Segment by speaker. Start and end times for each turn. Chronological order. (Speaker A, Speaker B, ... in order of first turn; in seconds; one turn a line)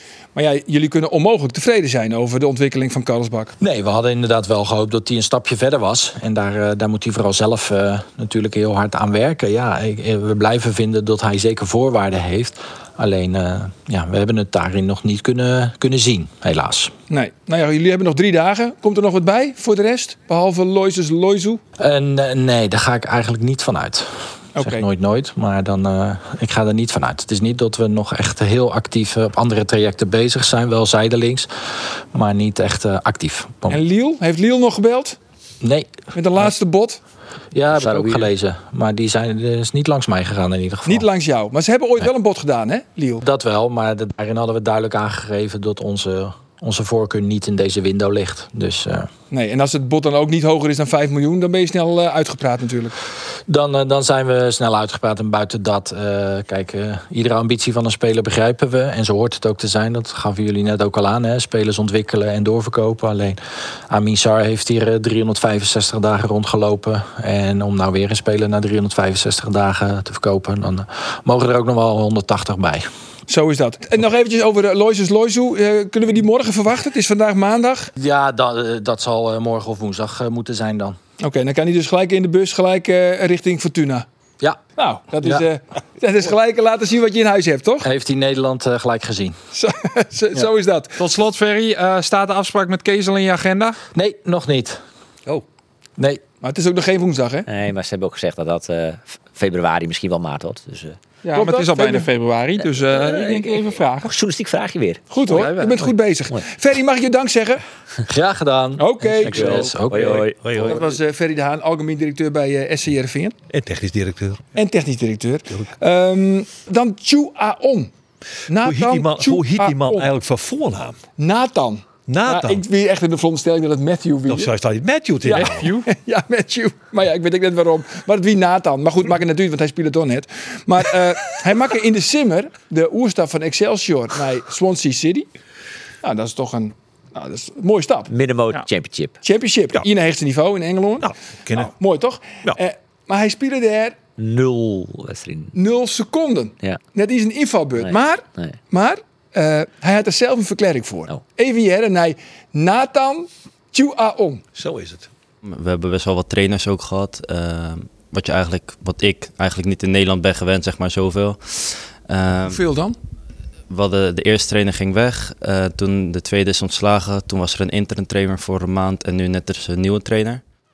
Speaker A: 0.3-3.5
Speaker B: 3.6-16.9
Speaker A: 17.1-21.6
Speaker B: 21.8-33.8
Speaker A: 24.6-24.9
Speaker A: 33.7-35.2
Speaker B: 35.6-36.4
Speaker A: 36.1-37.0
Speaker B: 37.5-41.1
Speaker C: 37.7-38.3
Speaker A: 40.9-43.2
Speaker B: 43.2-49.1
Speaker A: 49.3-53.0
Speaker B: 53.5-72.9
Speaker A: 73.3-77.9
Speaker B: 78.0-81.0
Speaker A: 81.2-84.1
Speaker A: 84.8-87.9
Speaker B: 87.8-89.4
Speaker A: 89.5-91.0
Speaker D: 91.0-93.8
Speaker B: 94.0-94.8
Speaker B: 96.0-96.2
Speaker A: 96.4-97.5
Speaker C: 97.5-101.0
Speaker A: 101.2-102.1
Speaker D: 101.3-104.1
Speaker C: 102.6-105.5
Speaker A: 105.1-107.6
Speaker D: 105.3-105.8
Speaker B: 108.1-110.2
Speaker A: 108.8-109.8
Speaker C: 109.2-110.8
Speaker E: 110.4-110.8
Speaker A: 110.6-113.4
Speaker E: 113.5-114.4
Speaker A: 114.6-117.9
Speaker A: 118.5-120.1
Speaker E: 118.5-121.0
Speaker A: 121.2-124.5
Speaker E: 122.1-122.6
Speaker E: 124.3-125.7
Speaker A: 125.2-135.3
Speaker D: 125.3-125.9
Speaker A: 136.0-138.1
Speaker C: 138.1-139.2
Speaker A: 139.2-144.0
Speaker E: 141.0-141.7
Speaker C: 144.2-145.6
Speaker A: 145.6-154.4
Speaker C: 147.8-148.6
Speaker E: 154.6-155.1
Speaker F: 155.4-162.6
Speaker A: 162.4-163.0
Speaker F: 163.7-170.4